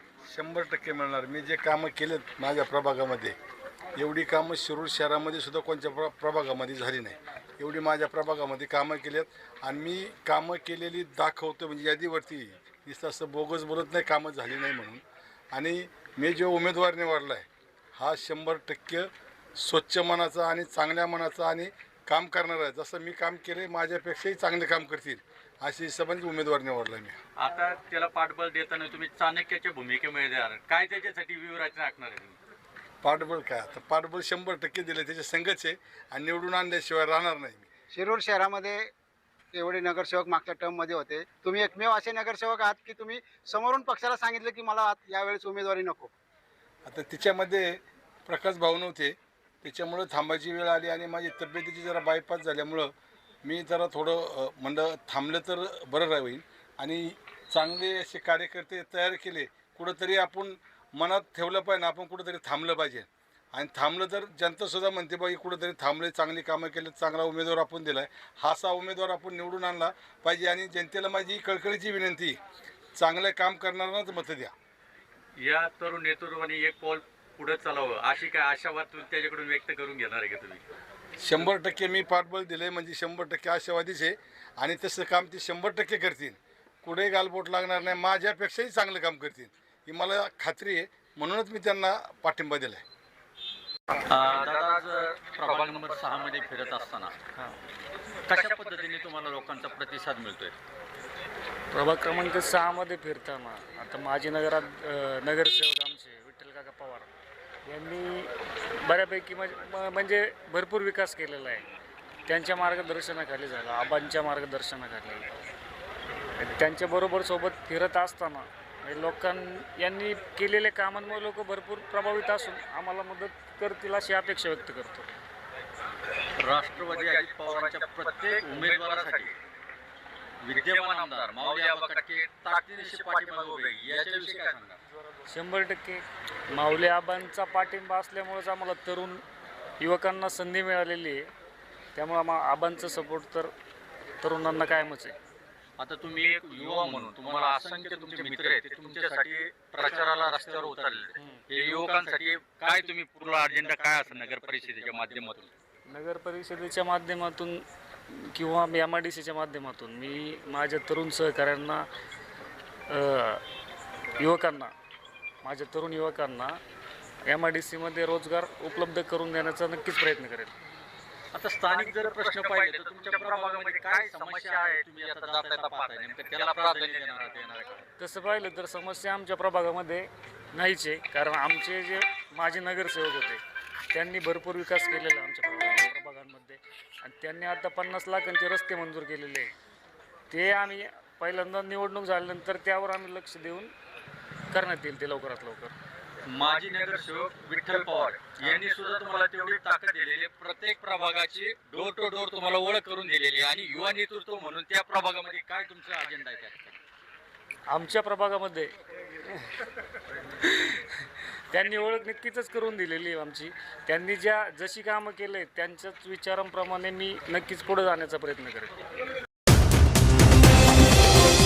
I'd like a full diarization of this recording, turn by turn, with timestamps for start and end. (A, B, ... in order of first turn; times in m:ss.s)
0:00.3-0:03.4 A
0:04.0-0:27.2 A
0:27.4-0:32.4 B
0:33.0-0:37.7 A
0:37.9-0:38.9 C
0:39.5-0:46.1 C
0:46.8-0:52.9 A
0:53.4-1:12.4 A
1:13.0-1:14.5 A
1:15.4-1:20.6 B
1:21.2-1:32.8 A
1:34.1-1:37.2 B
1:38.3-1:40.6 B
1:41.7-1:47.1 D
1:47.7-1:51.7 D
1:52.3-1:55.3 D
1:56.4-2:05.1 D
2:06.4-2:09.3 B
2:10.4-2:14.8 B
2:15.3-2:16.0 D
2:16.5-2:19.2 D
2:19.8-2:21.3 D
2:22.0-2:23.5 D
2:24.2-2:25.2 D
2:25.8-2:35.5 B
2:31.2-2:31.4 D
2:35.9-2:41.9 D
2:42.9-2:43.4 D
2:44.2-2:44.7 D
2:45.4-2:46.6 D
2:47.3-2:50.5 D
2:51.3-2:57.8 B
2:58.0-3:09.5 D
3:10.3-3:13.7 D
3:14.5-3:15.7 D
3:16.3-3:26.8 B
3:27.7-3:28.7 D
3:29.3-3:29.5 D
3:30.4-3:30.8 D
3:31.5-3:38.8 D